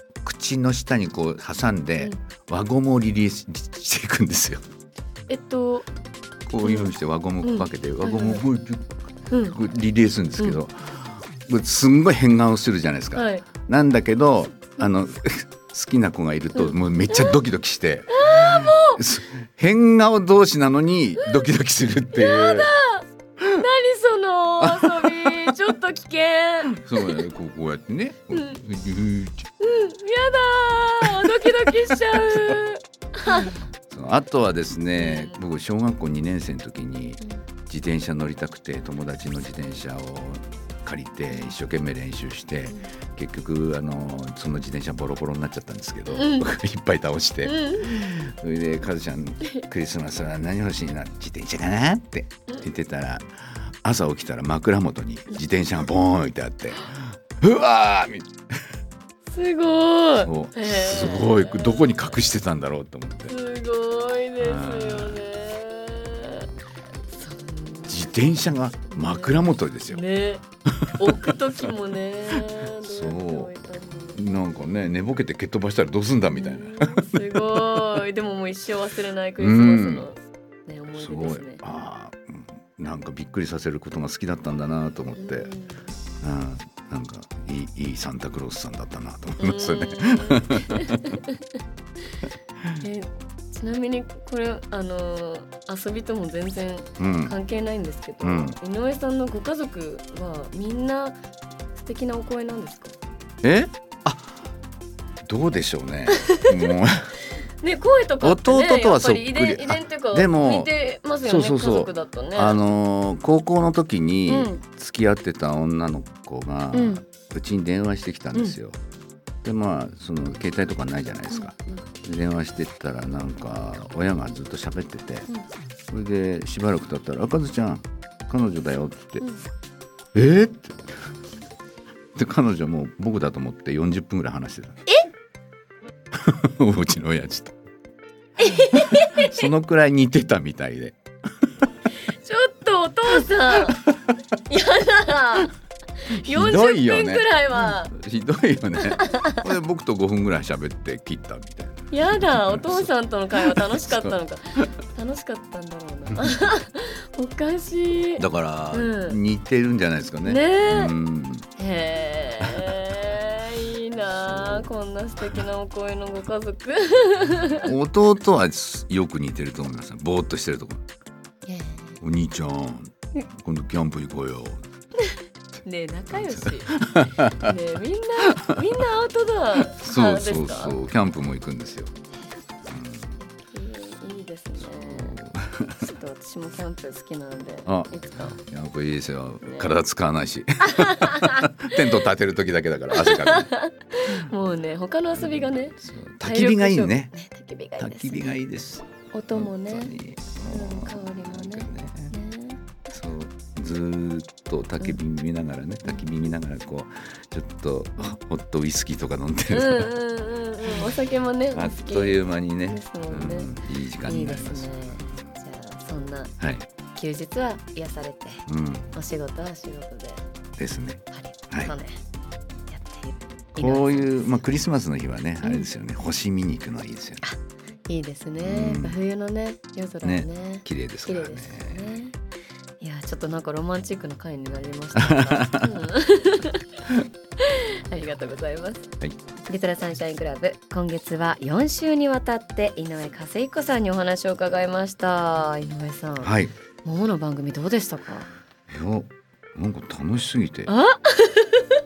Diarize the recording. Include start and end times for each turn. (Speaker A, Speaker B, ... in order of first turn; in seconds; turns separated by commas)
Speaker A: 0.2-4.6, Speaker B: 5.3-5.9, Speaker A: 6.5-8.9, Speaker B: 6.6-8.4, Speaker B: 9.3-9.6, Speaker A: 9.4-22.7, Speaker B: 13.1-13.4, Speaker B: 16.6-17.4, Speaker B: 18.1-19.0, Speaker B: 22.1-27.3, Speaker A: 24.6-25.7, Speaker A: 26.7-29.5, Speaker B: 28.3-28.6, Speaker B: 29.6-33.6, Speaker A: 31.1-32.6, Speaker A: 33.4-58.3, Speaker B: 35.0-35.4, Speaker B: 41.3-41.6, Speaker B: 46.1-46.5, Speaker B: 47.5-48.3, Speaker B: 59.3-62.1, Speaker A: 60.2-63.3, Speaker B: 63.3-66.5, Speaker A: 64.4-65.3, Speaker B: 67.1-68.3, Speaker A: 67.9-70.0, Speaker B: 68.9-70.4, Speaker A: 70.7-71.7, Speaker B: 71.0-74.7, Speaker A: 72.3-73.6, Speaker A: 74.1-78.0, Speaker B: 76.3-81.6, Speaker A: 79.4-80.1, Speaker A: 81.0-85.5, Speaker B: 85.1-85.9, Speaker A: 86.2-91.2, Speaker B: 89.4-91.4, Speaker B: 92.8-101.2, Speaker A: 97.0-97.4, Speaker A: 98.2-98.6, Speaker B: 101.8-103.0, Speaker A: 103.4-104.3, Speaker A: 105.2-107.1, Speaker B: 106.1-106.7, Speaker B: 107.6-112.6, Speaker A: 108.2-110.7, Speaker A: 111.2-118.8, Speaker B: 114.3-114.6, Speaker B: 116.7-117.0, Speaker A: 119.4-125.3, Speaker B: 121.3-121.8, Speaker A: 125.9-129.2, Speaker B: 129.2-129.4, Speaker A: 130.2-130.9, Speaker A: 132.2-134.8, Speaker A: 136.2-137.5, Speaker B: 138.4-139.5, Speaker A: 138.7-141.0, Speaker B: 142.1-143.8, Speaker B: 144.5-147.9, Speaker A: 146.1-154.7, Speaker B: 148.8-149.4, Speaker B: 151.9-159.2, Speaker A: 158.2-161.5, Speaker B: 160.2-160.9, Speaker B: 161.6-167.7, Speaker A: 162.4-162.8, Speaker A: 164.2-164.7, Speaker A: 167.6-170.8, Speaker B: 171.4-172.0, Speaker A: 172.0-174.6, Speaker B: 175.0-176.8, Speaker A: 176.1-177.5, Speaker B: 177.4-180.8, Speaker A: 178.3-178.6, Speaker A: 179.7-181.9, Speaker A: 182.7-183.2, Speaker B: 183.4-185.2, Speaker A: 184.6-185.9, Speaker B: 185.8-188.4, Speaker A: 187.7-193.5, Speaker B: 189.4-189.7, Speaker B: 190.8-191.8, Speaker B: 192.9-198.3, Speaker A: 195.1-197.1, Speaker A: 197.8-202.1, Speaker B: 199.1-200.0, Speaker B: 200.5-202.6, Speaker A: 202.9-209.9, Speaker B: 209.5-213.5, Speaker A: 210.7-210.9, Speaker A: 211.5-215.3, Speaker B: 214.0-216.3, Speaker A: 216.4-216.7, Speaker B: 216.9-220.2, Speaker A: 218.5-218.9, Speaker A: 220.6-221.8, Speaker B: 221.1-222.0, Speaker B: 222.7-224.2, Speaker A: 223.6-227.2, Speaker B: 225.4-225.7, Speaker B: 227.2-232.2, Speaker A: 228.4-229.0, Speaker A: 230.0-232.0, Speaker B: 232.8-236.7, Speaker A: 235.0-235.9, Speaker B: 237.4-238.9, Speaker B: 239.5-248.3, Speaker A: 246.2-246.6, Speaker A: 248.7-250.7, Speaker B: 250.7-251.8